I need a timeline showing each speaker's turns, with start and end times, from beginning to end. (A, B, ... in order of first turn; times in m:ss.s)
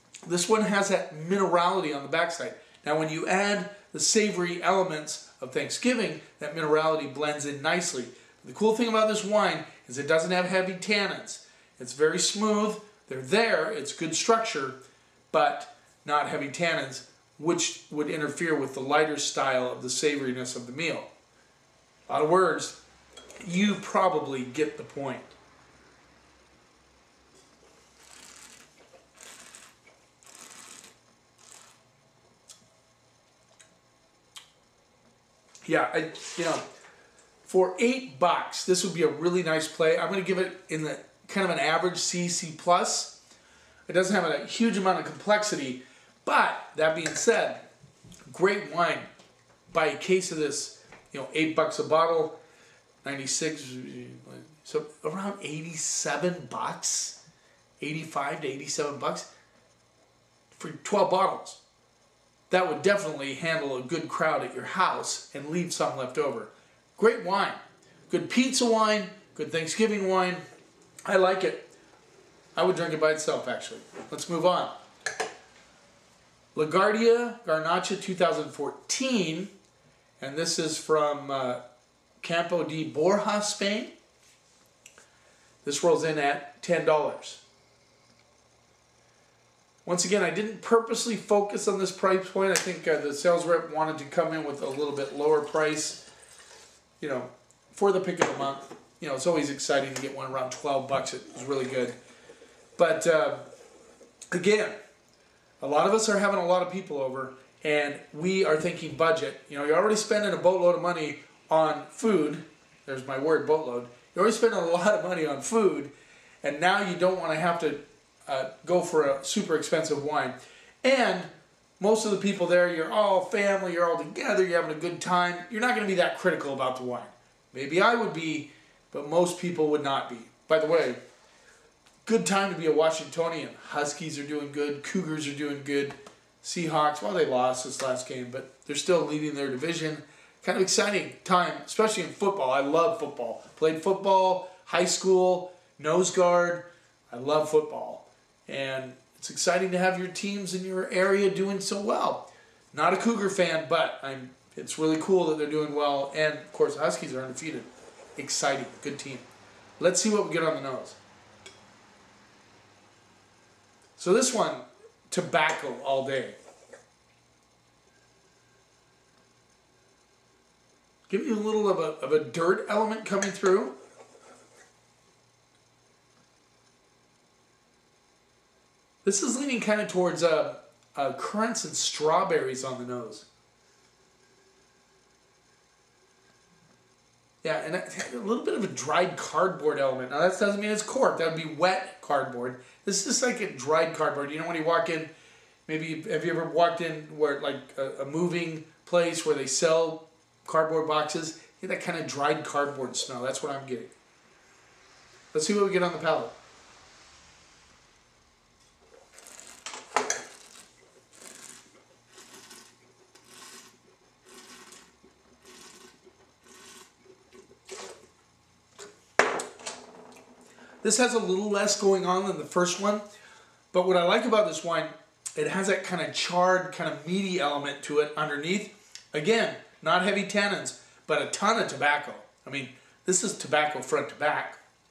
0:00.2-0:14.8 A
0:15.3-0:21.1 A
0:22.1-0:22.8 A
0:23.4-0:25.3 A
0:35.6-0:36.6 A
0:37.4-0:43.2 A
0:43.9-0:47.6 A
0:48.3-0:49.1 A
0:49.7-0:52.4 A
0:53.0-0:57.2 A
0:57.8-0:59.3 A
1:00.6-1:01.6 A
1:02.5-1:10.4 A
1:11.0-1:11.7 A
1:12.5-1:14.7 A
1:16.5-1:19.5 A
1:20.2-1:21.6 A
1:22.2-1:23.9 A
1:25.6-1:27.4 A
1:29.8-1:36.0 A
1:37.0-1:41.9 A
1:42.8-1:43.4 A
1:44.3-1:44.8 A
1:45.6-1:55.9 A
1:56.4-2:11.0 A
2:12.0-2:39.2 A
2:39.8-2:41.0 A
2:44.0-2:46.4 A
2:51.1-2:53.7 A
2:59.0-3:03.2 A
3:07.4-3:15.1 A
3:15.7-3:23.9 A
3:25.3-3:26.3 A
3:40.8-3:43.0 A
3:43.7-3:54.6 A